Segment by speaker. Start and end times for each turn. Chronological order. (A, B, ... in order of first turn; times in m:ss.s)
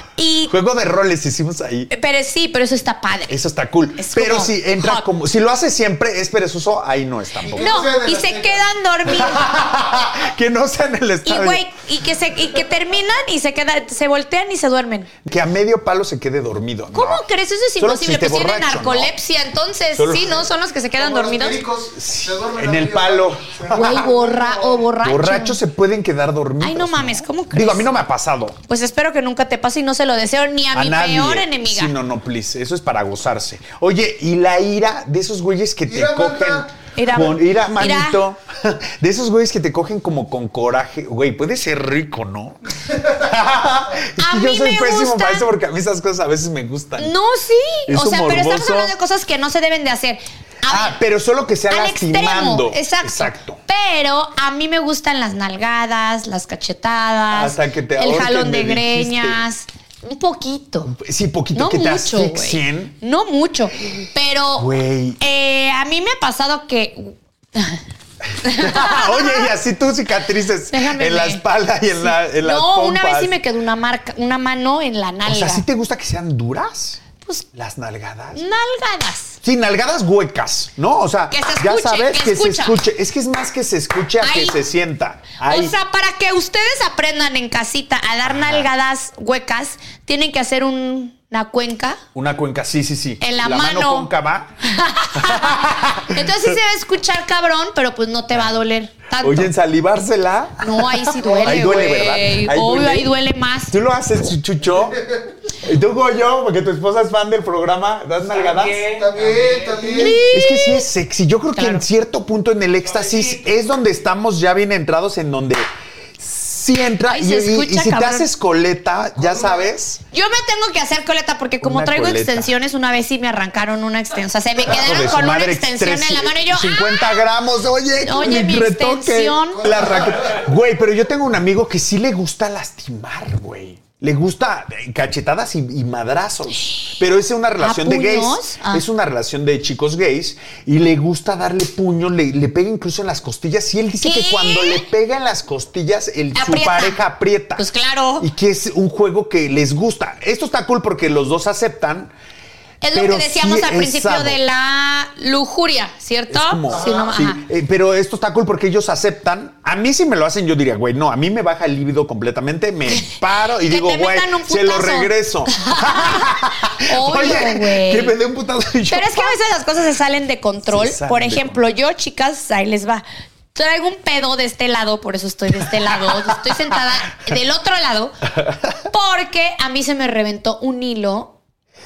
0:00.2-0:00.5 A
0:00.5-0:01.9 B
0:01.9-0:03.4 A
0:03.3-0:07.7 B
0:04.0-0:05.0 A
0:07.5-0:08.7 C
0:07.6-0:09.5 A
0:09.1-0:11.6 B
0:11.2-0:15.1 A
0:15.2-0:17.2 B
0:16.9-0:21.6 A
0:17.8-0:19.1 B
0:20.0-0:20.5 B
0:21.0-0:24.8 C
0:21.9-0:24.1 B
0:23.7-0:25.6 A
0:25.0-0:28.6 B
0:26.6-0:27.9 A
0:28.7-0:31.9 A
0:30.7-0:47.1 B
0:35.9-0:36.7 C
0:37.0-0:38.2 A
0:44.2-0:45.5 A
0:47.0-0:51.0 A
0:47.9-0:48.9 B
0:50.7-0:53.6 B
0:51.7-1:00.9 A
0:57.3-0:59.4 B
1:00.9-1:02.9 B
1:01.5-1:07.8 A
1:04.6-1:05.2 B
1:08.3-1:13.4 B
1:08.4-1:09.5 A
1:10.7-1:15.6 A
1:15.3-1:18.4 B
1:18.3-1:19.4 A
1:19.4-1:25.8 B
1:21.3-1:22.8 A
1:24.2-1:24.6 A
1:25.4-1:32.0 A
1:28.3-1:28.7 B
1:32.2-1:34.5 B
1:33.2-1:34.1 A
1:34.6-1:39.5 A
1:35.2-1:36.6 B
1:39.2-1:43.2 B
1:40.6-1:43.8 A
1:43.7-1:49.0 B
1:48.8-1:50.2 C
1:49.8-1:55.6 B
1:49.8-1:50.9 A
1:51.6-1:51.8 A
1:56.2-2:00.0 B
1:57.1-1:58.3 A
1:59.2-1:59.7 C
2:00.1-2:07.2 A
2:01.6-2:02.5 B
2:04.7-2:27.7 B
2:08.0-2:09.7 A
2:09.7-2:10.1 C
2:17.6-2:18.8 A
2:24.0-2:24.8 A
2:26.4-2:27.0 A
2:27.6-2:28.3 A
2:28.2-2:32.1 B
2:32.8-2:37.4 A
2:33.0-2:34.4 B
2:36.3-2:49.4 B
2:36.7-2:37.0 C
2:42.9-2:48.2 A
2:48.9-2:53.0 A
2:50.6-2:51.6 B
2:53.5-2:58.2 A
2:55.6-2:56.7 B
2:58.3-2:58.8 B
2:58.9-3:01.4 A